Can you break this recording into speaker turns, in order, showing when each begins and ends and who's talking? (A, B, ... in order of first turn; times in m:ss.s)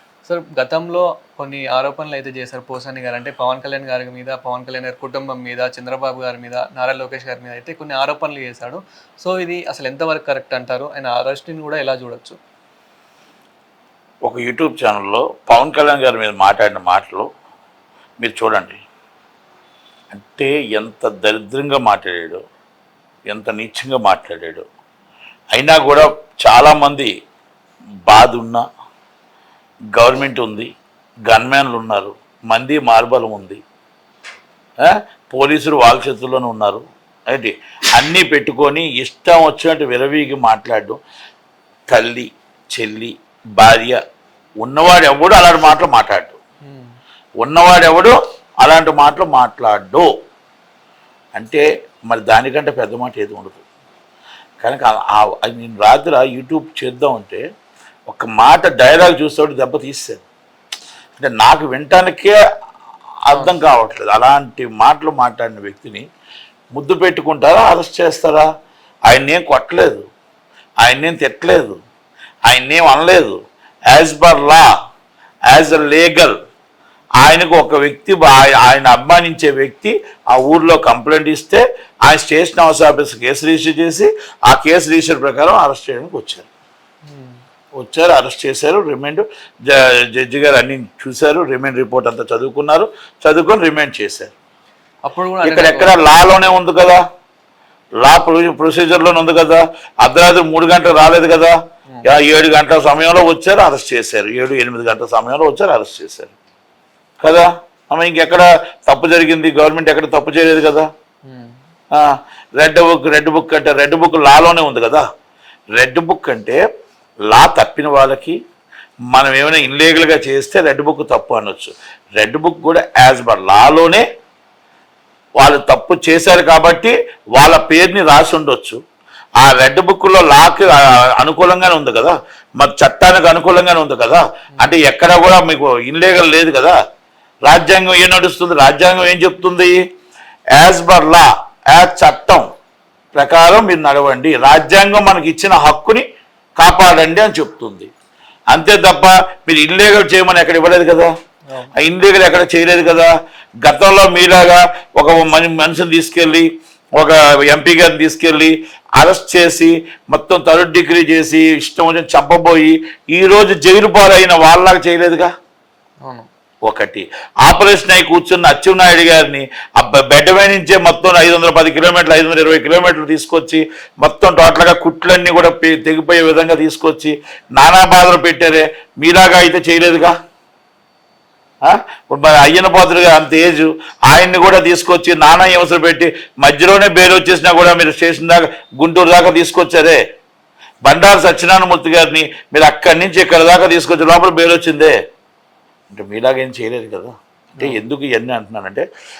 0:00.2-0:12.4 A
0:14.2-0:17.2 B
0:18.2-0:18.8 B
0:20.1-0:22.4 B
0:23.3-0:24.6 B
0:25.5-0:27.1 B
0:28.1-0:28.6 B
0:29.9-0:30.7 B
0:31.3-0:33.6 B
0:34.8-0:41.0 B
0:41.9-0:44.0 B
0:44.6-0:46.4 B
0:46.6-0:46.9 A
0:47.4-0:50.1 B
0:51.3-0:53.6 B
0:54.6-0:57.4 B
0:58.1-1:00.2 B
1:01.2-1:02.3 B
1:03.3-1:06.0 B
1:06.7-1:08.4 B
1:09.1-1:10.0 B
1:10.8-1:11.8 B
1:12.5-1:13.4 B
1:13.9-1:14.7 B
1:15.5-1:16.3 B
1:17.2-1:26.5 B
1:27.0-1:27.4 A
1:27.8-1:34.3 B
1:35.0-1:36.0 A
1:35.4-1:37.0 B
1:38.0-1:46.3 B
1:47.2-1:50.8 B
1:51.2-1:51.6 A
1:51.9-1:55.0 B
1:55.7-1:56.6 B
1:57.3-1:58.4 B
1:59.1-2:04.0 B
2:05.4-2:08.8 B
2:09.4-2:16.7 B
2:17.4-2:19.8 B
2:20.6-2:22.4 B
2:23.1-2:26.0 B
2:26.6-2:27.9 B
2:28.5-2:31.1 B
2:31.8-2:33.1 B
2:33.6-2:45.3 B
2:46.0-2:46.3 A
2:46.6-3:00.1 B
3:01.6-3:10.0 B
3:10.8-3:14.9 B
3:15.9-3:18.8 B